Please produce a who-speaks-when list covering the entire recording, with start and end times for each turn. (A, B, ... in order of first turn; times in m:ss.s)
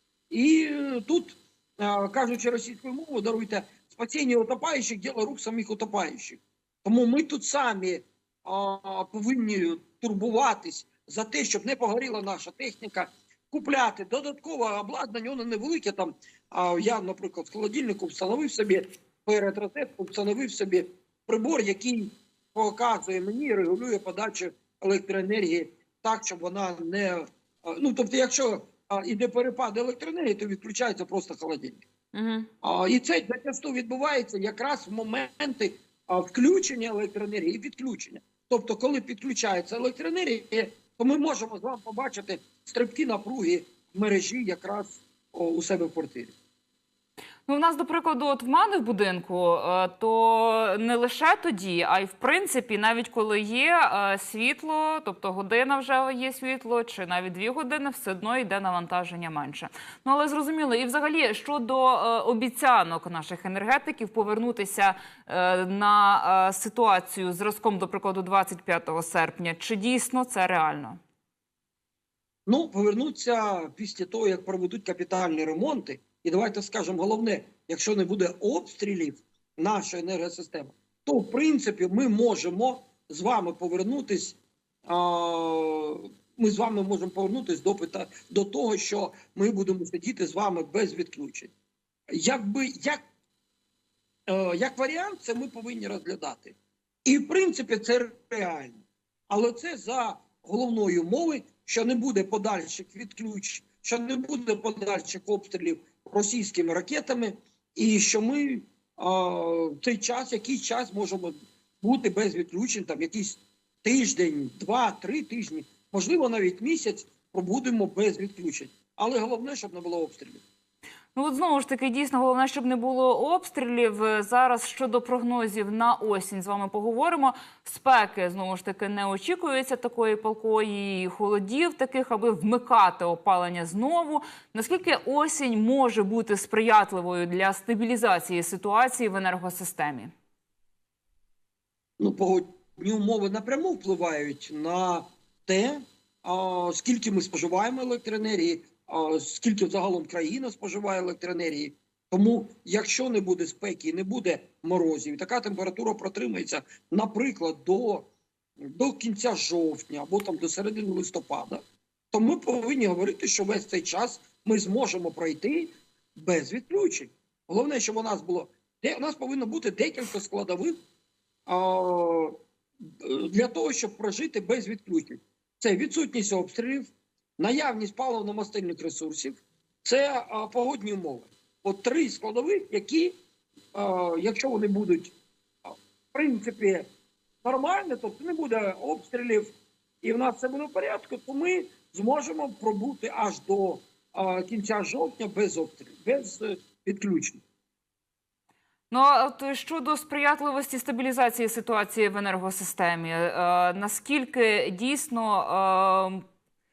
0:00.3-0:31.8 A
0:32.1-0:32.5 B
0:32.6-0:46.3 A
0:47.5-1:11.0 B
1:12.4-1:31.5 A
1:32.1-1:33.0 A
1:34.3-2:00.4 A
2:01.1-2:20.1 B
2:22.0-2:38.1 A
2:38.6-2:50.8 A
2:51.4-3:03.2 A
3:03.7-3:06.9 A
3:07.4-3:17.4 A
3:18.9-3:26.2 B